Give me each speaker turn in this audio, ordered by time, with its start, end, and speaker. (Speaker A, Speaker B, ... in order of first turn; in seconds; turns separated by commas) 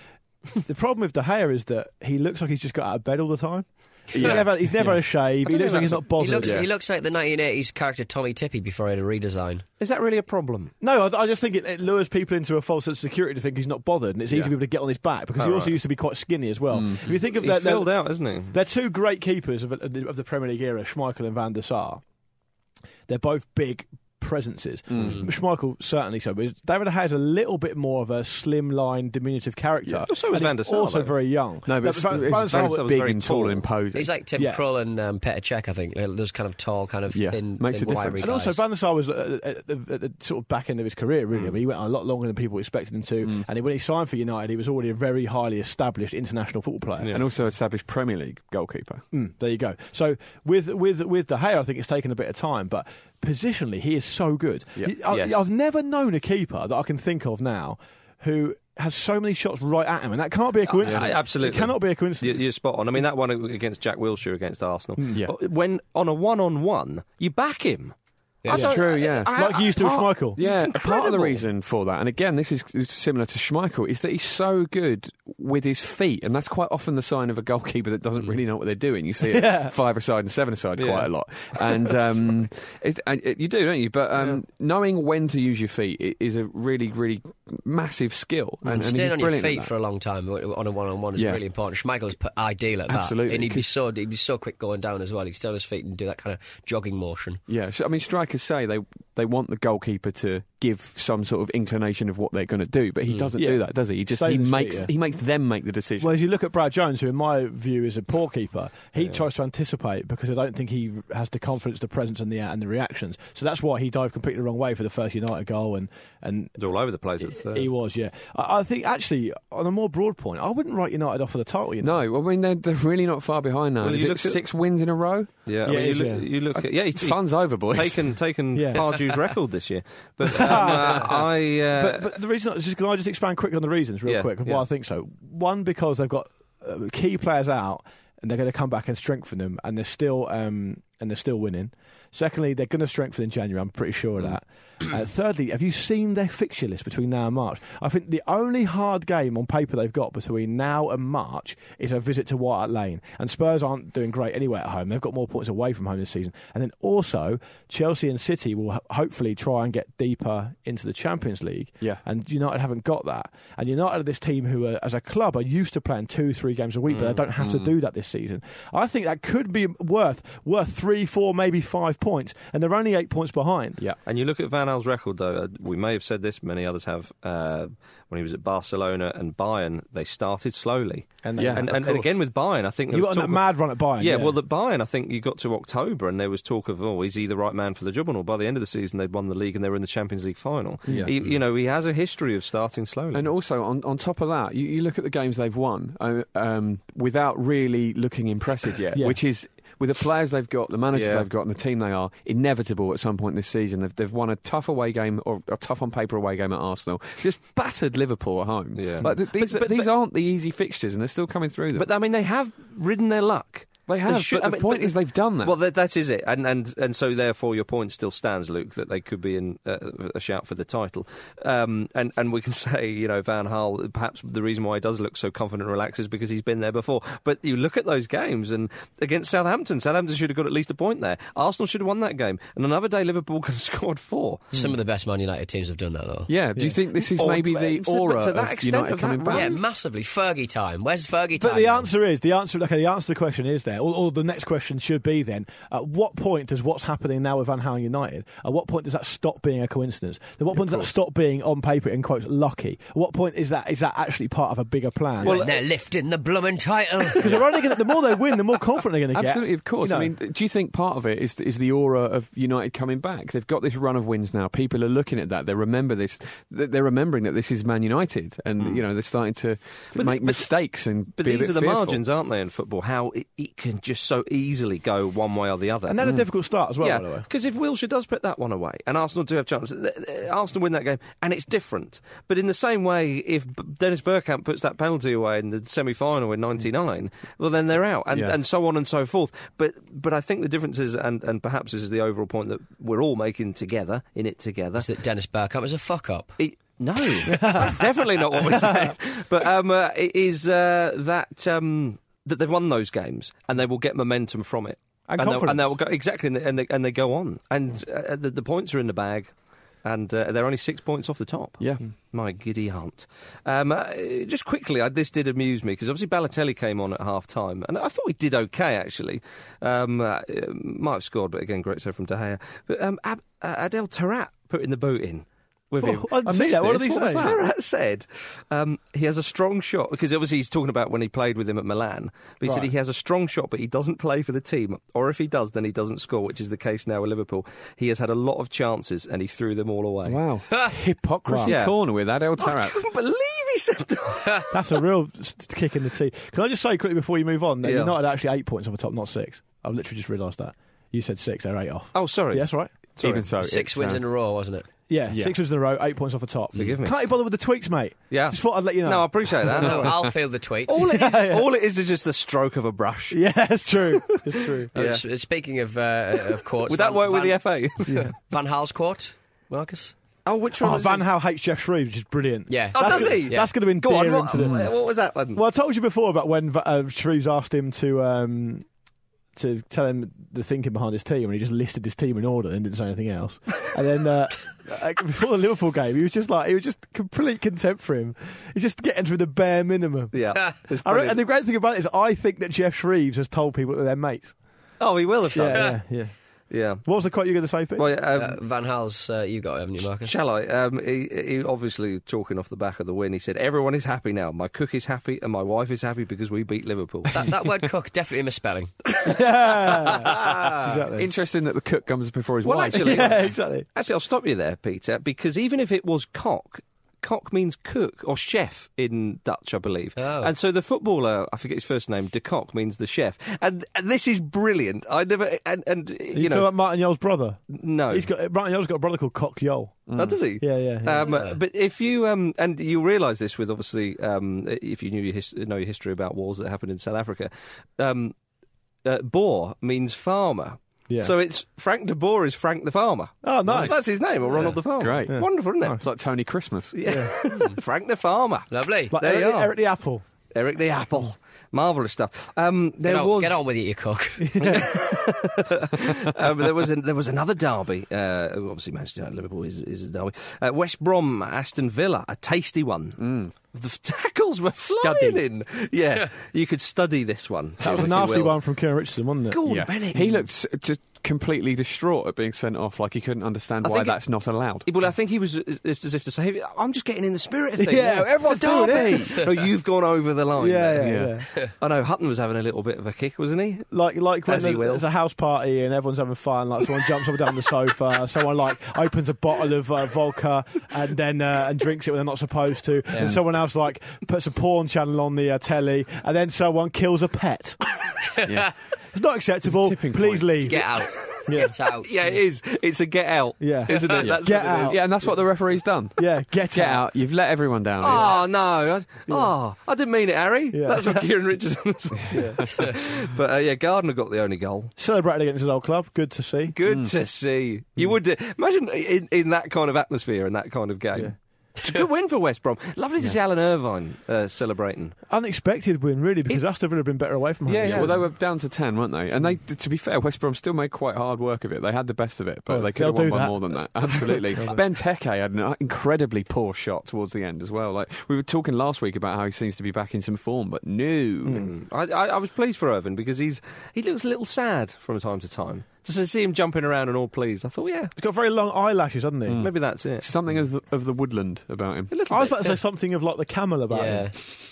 Speaker A: 0.5-6.7, Speaker B: 4.1-5.0, Speaker C: 5.5-6.0, Speaker D: 5.5-9.6, Speaker B: 6.4-6.7, Speaker C: 9.8-10.7, Speaker A: 10.8-17.9, Speaker C: 15.4-15.8, Speaker B: 16.7-17.0, Speaker C: 17.1-18.6, Speaker A: 18.5-22.0, Speaker A: 23.1-32.9, Speaker B: 24.9-25.2, Speaker C: 30.1-31.1, Speaker B: 31.7-34.1, Speaker C: 32.2-33.7, Speaker D: 33.9-38.6, Speaker A: 34.4-34.6, Speaker B: 37.1-38.3, Speaker A: 38.2-47.1, Speaker C: 47.0-47.2, Speaker B: 47.1-49.0, Speaker A: 49.1-62.4, Speaker C: 55.1-55.4, Speaker C: 60.7-67.9, Speaker D: 68.4-68.7, Speaker C: 68.5-71.4, Speaker B: 68.5-89.7, Speaker A: 69.3-70.4, Speaker A: 79.3-79.7, Speaker C: 80.8-81.1, Speaker D: 88.7-97.4, Speaker B: 91.2-91.4, Speaker B: 92.9-93.7, Speaker B: 97.5-106.1, Speaker A: 103.4-104.9, Speaker A: 106.0-116.5, Speaker C: 116.6-117.7, Speaker A: 117.2-122.0, Speaker B: 121.8-125.8, Speaker C: 123.8-124.4, Speaker C: 125.5-132.2, Speaker A: 125.7-126.3, Speaker B: 126.6-128.1, Speaker A: 128.6-128.9, Speaker A: 130.2-173.8, Speaker C: 134.1-134.7, Speaker C: 166.9-167.2, Speaker B: 167.4-167.7, Speaker C: 174.1-193.3, Speaker A: 181.2-182.0, Speaker B: 181.4-182.1, Speaker A: 182.9-184.3, Speaker A: 190.9-191.1, Speaker B: 190.9-191.4, Speaker B: 193.1-211.9, Speaker C: 200.9-201.3, Speaker C: 208.8-209.9, Speaker C: 211.8-234.5, Speaker B: 213.9-215.6, Speaker D: 234.5-236.3, Speaker B: 236.3-239.6, Speaker C: 237.1-239.6, Speaker D: 239.3-241.9, Speaker A: 241.4-255.4, Speaker B: 250.5-250.9, Speaker C: 255.2-255.6, Speaker D: 255.2-257.6, Speaker A: 257.2-260.1, Speaker B: 259.1-272.0, Speaker C: 268.6-268.8, Speaker C: 269.9-270.5, Speaker C: 271.2-276.0, Speaker A: 275.9-277.3, Speaker C: 276.8-294.9, Speaker B: 288.1-288.4, Speaker D: 294.8-296.4, Speaker C: 296.4-309.3, Speaker A: 297.2-297.8, Speaker A: 298.4-298.9, Speaker A: 305.1-305.6, Speaker C: 309.8-340.2, Speaker A: 325.8-327.3, Speaker B: 326.2-327.4, Speaker A: 332.4-332.7, Speaker B: 340.1-342.8, Speaker A: 341.3-341.6, Speaker C: 341.4-341.8, Speaker C: 342.4-344.8, Speaker A: 344.5-352.7, Speaker C: 347.6-348.0, Speaker C: 351.9-353.3, Speaker B: 353.0-354.0, Speaker D: 353.4-354.7, Speaker A: 354.9-359.9, Speaker B: 355.1-355.4, Speaker C: 356.5-357.1, Speaker C: 358.1-360.1, Speaker D: 359.6-360.8, Speaker C: 360.7-363.2, Speaker A: 360.8-361.5, Speaker A: 363.1-364.7, Speaker C: 363.7-364.2, Speaker C: 364.7-365.0, Speaker D: 364.7-369.9, Speaker C: 366.7-367.9, Speaker A: 367.9-368.1, Speaker C: 370.3-371.1, Speaker A: 370.6-374.7, Speaker D: 372.5-373.5, Speaker C: 372.8-375.4, Speaker B: 374.4-374.7, Speaker A: 375.4-378.6, Speaker A: 379.4-390.1, Speaker C: 390.1-391.2, Speaker A: 390.8-394.4, Speaker C: 394.8-395.8, Speaker A: 395.3-396.1, Speaker C: 396.5-396.9, Speaker A: 396.9-397.9, Speaker C: 397.8-398.4, Speaker D: 398.1-400.1, Speaker C: 400.0-407.3, Speaker D: 407.1-408.7, Speaker A: 408.9-411.1, Speaker B: 409.8-413.2, Speaker C: 412.4-426.5, Speaker A: 412.8-413.6, Speaker D: 420.0-420.3, Speaker A: 426.1-427.4, Speaker C: 427.5-428.1, Speaker A: 427.9-429.8, Speaker B: 429.9-430.2, Speaker C: 429.9-438.1, Speaker A: 430.4-431.2, Speaker D: 431.0-431.4, Speaker C: 438.9-445.8, Speaker A: 443.2-443.8, Speaker B: 443.5-443.8, Speaker B: 444.8-446.8, Speaker A: 445.1-445.8, Speaker C: 446.7-449.6, Speaker A: 446.9-447.2, Speaker D: 448.5-449.0, Speaker A: 448.9-450.0, Speaker C: 450.3-453.4, Speaker D: 452.8-454.5, Speaker A: 454.2-455.0, Speaker C: 454.4-463.0, Speaker B: 463.0-463.3, Speaker C: 463.5-468.4, Speaker A: 464.8-465.2, Speaker A: 467.6-469.4, Speaker C: 469.3-470.2, Speaker B: 469.5-474.7, Speaker C: 473.6-474.0, Speaker C: 474.6-483.7, Speaker A: 477.6-479.5, Speaker A: 480.4-481.3, Speaker B: 480.8-481.2, Speaker A: 483.7-497.6, Speaker C: 484.3-484.9, Speaker B: 492.9-493.2, Speaker B: 498.2-498.5, Speaker A: 498.9-500.6, Speaker B: 499.4-500.6, Speaker D: 500.5-502.0, Speaker A: 501.3-501.5, Speaker C: 501.4-504.9, Speaker A: 503.4-505.1, Speaker B: 503.9-508.1, Speaker A: 506.0-506.9, Speaker C: 507.8-514.7, Speaker A: 509.1-509.3, Speaker A: 510.5-511.0, Speaker A: 512.1-512.7, Speaker A: 514.8-516.6, Speaker C: 516.5-525.0, Speaker B: 516.6-516.9, Speaker A: 525.1-528.1, Speaker C: 527.5-528.0, Speaker B: 527.5-541.4, Speaker A: 532.5-534.6, Speaker A: 541.2-541.5, Speaker C: 541.3-547.9, Speaker A: 548.0-549.4, Speaker B: 549.3-552.3, Speaker C: 549.4-550.1, Speaker C: 551.9-552.6, Speaker A: 552.1-554.1, Speaker D: 553.7-554.1